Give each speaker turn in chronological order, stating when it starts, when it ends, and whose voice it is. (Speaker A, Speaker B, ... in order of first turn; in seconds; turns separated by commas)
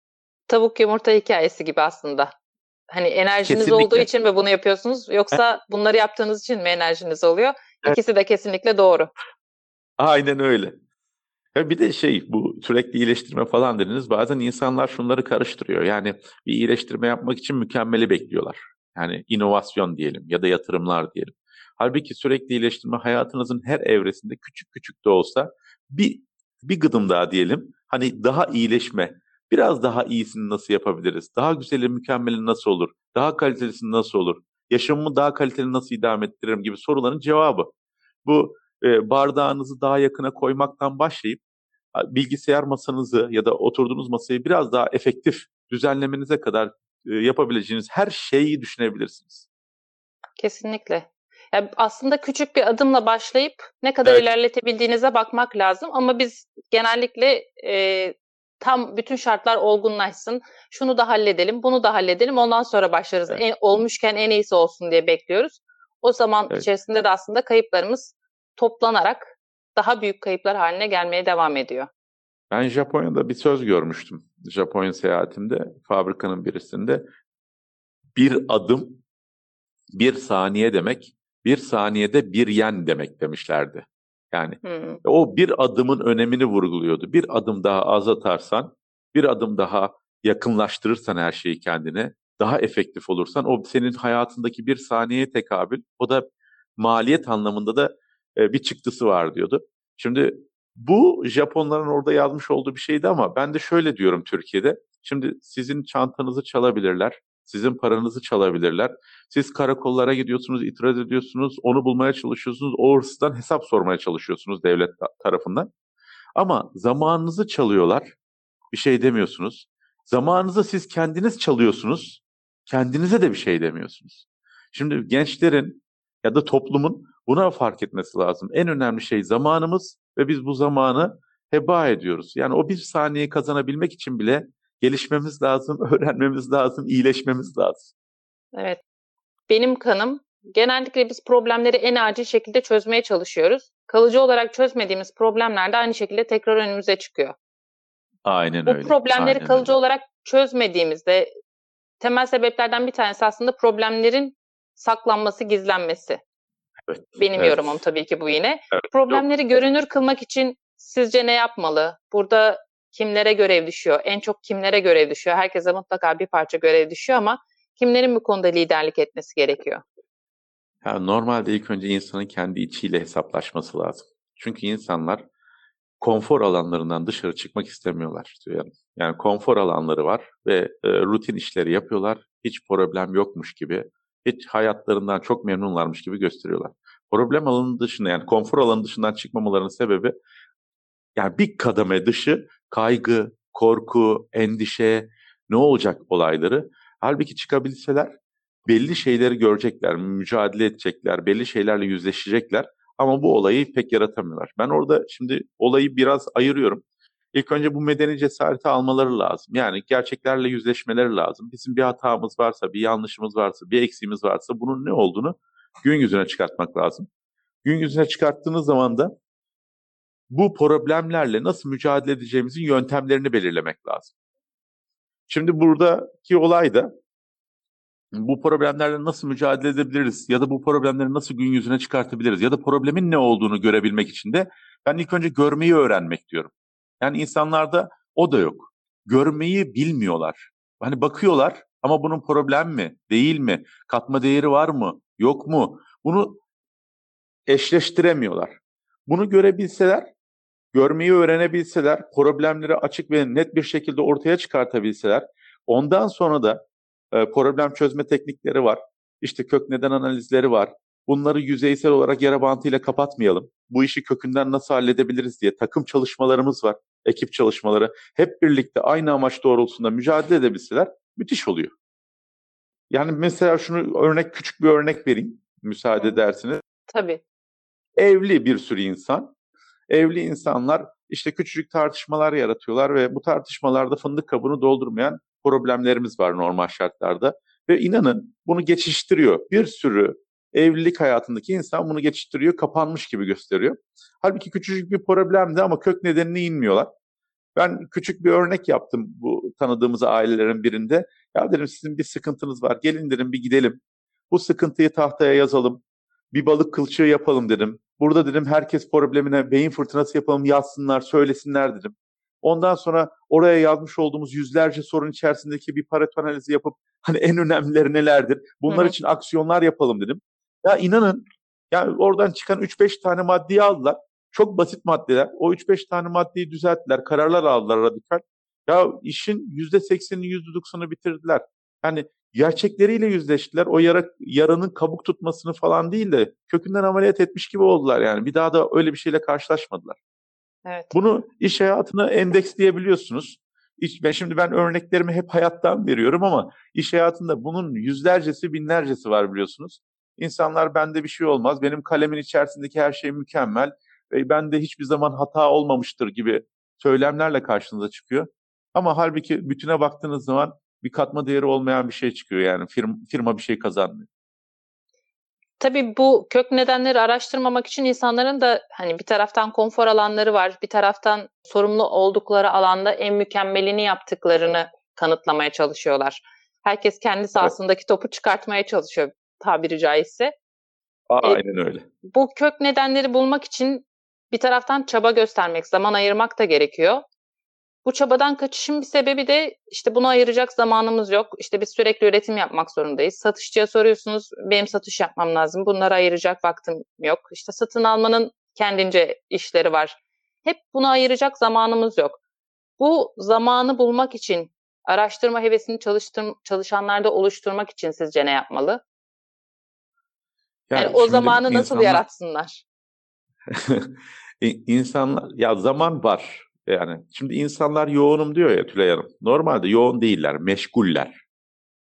Speaker A: 0.5-2.3, Speaker A: 2.9-9.1, Speaker B: 3.5-4.1, Speaker B: 10.0-10.7, Speaker B: 11.5-37.7, Speaker B: 38.2-41.4, Speaker B: 41.9-49.5, Speaker A: 50.4-71.9, Speaker B: 72.5-77.0, Speaker B: 78.1-79.0, Speaker B: 79.9-115.7, Speaker A: 84.6-85.0, Speaker B: 116.3-118.1, Speaker B: 118.7-137.9, Speaker A: 138.5-138.8, Speaker A: 139.5-147.3, Speaker B: 148.2-149.7, Speaker A: 148.7-151.3, Speaker A: 152.0-156.2, Speaker B: 156.9-157.8, Speaker A: 157.2-169.8, Speaker B: 158.7-159.2, Speaker B: 170.8-175.2, Speaker B: 176.0-190.1, Speaker B: 191.2-206.8, Speaker B: 207.3-217.1, Speaker B: 217.6-219.1, Speaker B: 220.3-224.1, Speaker B: 225.3-226.9, Speaker B: 228.1-246.4, Speaker B: 247.5-250.1, Speaker B: 250.7-271.7, Speaker B: 272.9-276.6, Speaker A: 276.9-277.2, Speaker B: 278.0-279.3, Speaker B: 279.9-296.9, Speaker B: 297.6-303.8, Speaker B: 304.3-305.8, Speaker B: 306.3-340.0, Speaker A: 318.7-318.9, Speaker A: 340.6-340.9, Speaker B: 340.9-364.1, Speaker A: 365.6-380.3, Speaker B: 381.1-381.9, Speaker A: 382.1-387.0, Speaker A: 387.8-402.2, Speaker A: 402.8-408.8, Speaker B: 410.7-412.0, Speaker A: 410.7-412.6, Speaker B: 413.5-421.2